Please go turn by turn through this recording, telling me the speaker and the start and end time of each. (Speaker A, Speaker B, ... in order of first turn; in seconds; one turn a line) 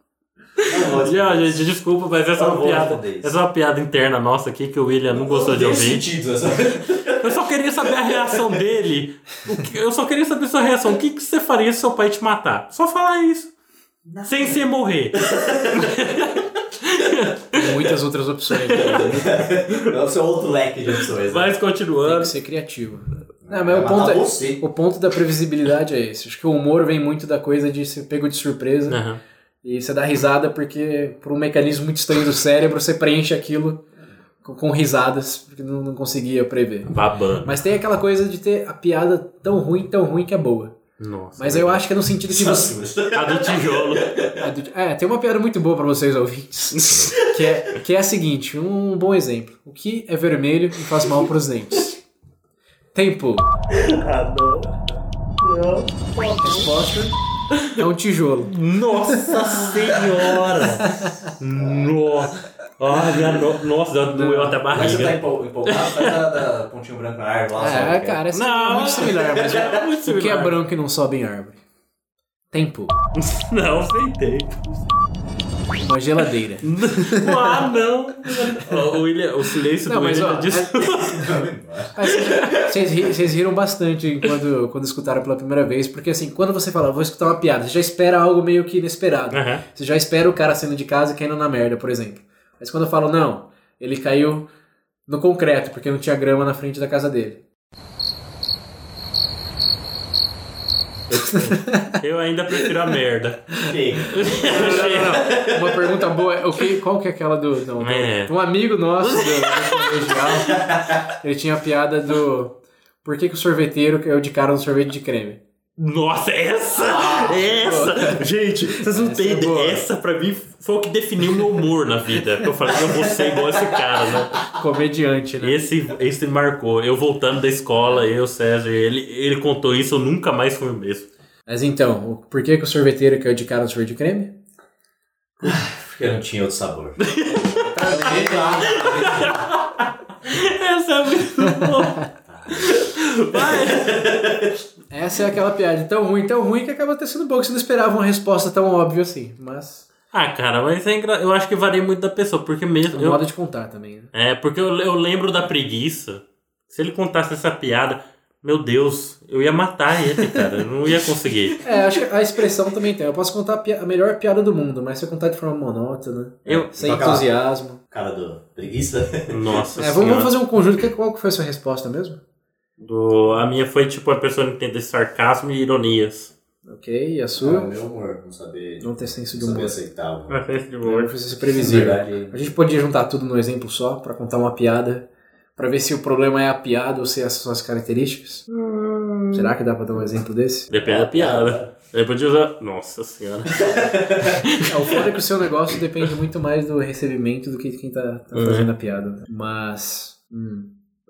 Speaker A: 0.6-6.1
Speaker B: 0.7-1.7
Speaker B: 2.3-3.3
Speaker B: 5.1-8.6
Speaker A: 7.2-13.5
Speaker B: 14.1-14.6
Speaker A: 14.2-17.8
Speaker B: 15.2-15.9
Speaker C: 17.5-19.3
Speaker A: 18.7-19.1
Speaker B: 18.8-21.5
Speaker A: 21.0-22.3
Speaker C: 22.0-29.0
Speaker B: 23.4-24.6
Speaker A: 28.9-29.2
Speaker C: 29.6-33.8
Speaker C: 34.4-40.8
Speaker A: 36.8-37.6
Speaker A: 41.0-41.8
Speaker C: 41.4-42.8
Speaker B: 42.3-44.5
Speaker A: 43.1-44.1
Speaker C: 44.4-52.0
Speaker C: 52.9-53.5
Speaker A: 53.7-54.7
Speaker B: 55.4-56.7
Speaker A: 56.2-56.4
Speaker C: 56.4-57.1
Speaker A: 57.5-57.8
Speaker C: 57.8-58.5
Speaker A: 58.5-66.2
Speaker B: 59.4-60.5
Speaker C: 60.8-61.1
Speaker B: 61.6-61.9
Speaker C: 64.1-64.6
Speaker B: 64.7-68.2
Speaker C: 67.6-71.6
Speaker A: 68.3-70.6
Speaker B: 69.2-69.8
Speaker C: 72.5-72.9
Speaker A: 73.2-74.8
Speaker C: 75.8-77.6
Speaker A: 76.6-81.3
Speaker C: 79.8-80.8
Speaker B: 80.8-81.9
Speaker C: 81.9-94.5
Speaker A: 82.0-82.6
Speaker A: 89.3-89.6
Speaker C: 95.1-97.4
Speaker A: 101.1-103.5
Speaker C: 101.3-101.9
Speaker B: 103.7-106.0
Speaker A: 104.1-105.3
Speaker C: 104.4-115.4
Speaker A: 107.8-108.3
Speaker A: 109.0-110.6
Speaker B: 110.5-111.0
Speaker A: 115.8-124.4
Speaker B: 116.7-117.8
Speaker C: 117.3-119.9
Speaker B: 122.8-123.8
Speaker C: 124.5-125.6
Speaker A: 125.4-131.1
Speaker C: 131.5-134.3
Speaker B: 135.4-137.0
Speaker A: 137.0-139.7
Speaker C: 137.4-139.3
Speaker B: 137.8-139.4
Speaker A: 140.2-144.0
Speaker C: 141.4-141.9
Speaker B: 142.3-142.8
Speaker B: 143.3-144.5
Speaker C: 144.9-149.9
Speaker A: 150.1-153.2
Speaker C: 152.9-154.1
Speaker A: 154.1-161.6
Speaker C: 161.6-167.8
Speaker A: 166.4-166.8
Speaker B: 166.4-167.3
Speaker B: 167.9-169.6
Speaker A: 169.3-170.3
Speaker C: 169.8-172.2
Speaker A: 172.8-176.3
Speaker C: 176.7-177.7
Speaker B: 177.4-180.4
Speaker C: 178.8-179.8
Speaker A: 180.3-181.1
Speaker C: 180.8-188.4
Speaker B: 181.5-182.5
Speaker A: 188.5-189.5
Speaker C: 189.3-190.7
Speaker A: 190.7-194.9
Speaker B: 190.7-191.7
Speaker B: 193.6-194.3
Speaker C: 194.6-200.7
Speaker A: 198.3-198.7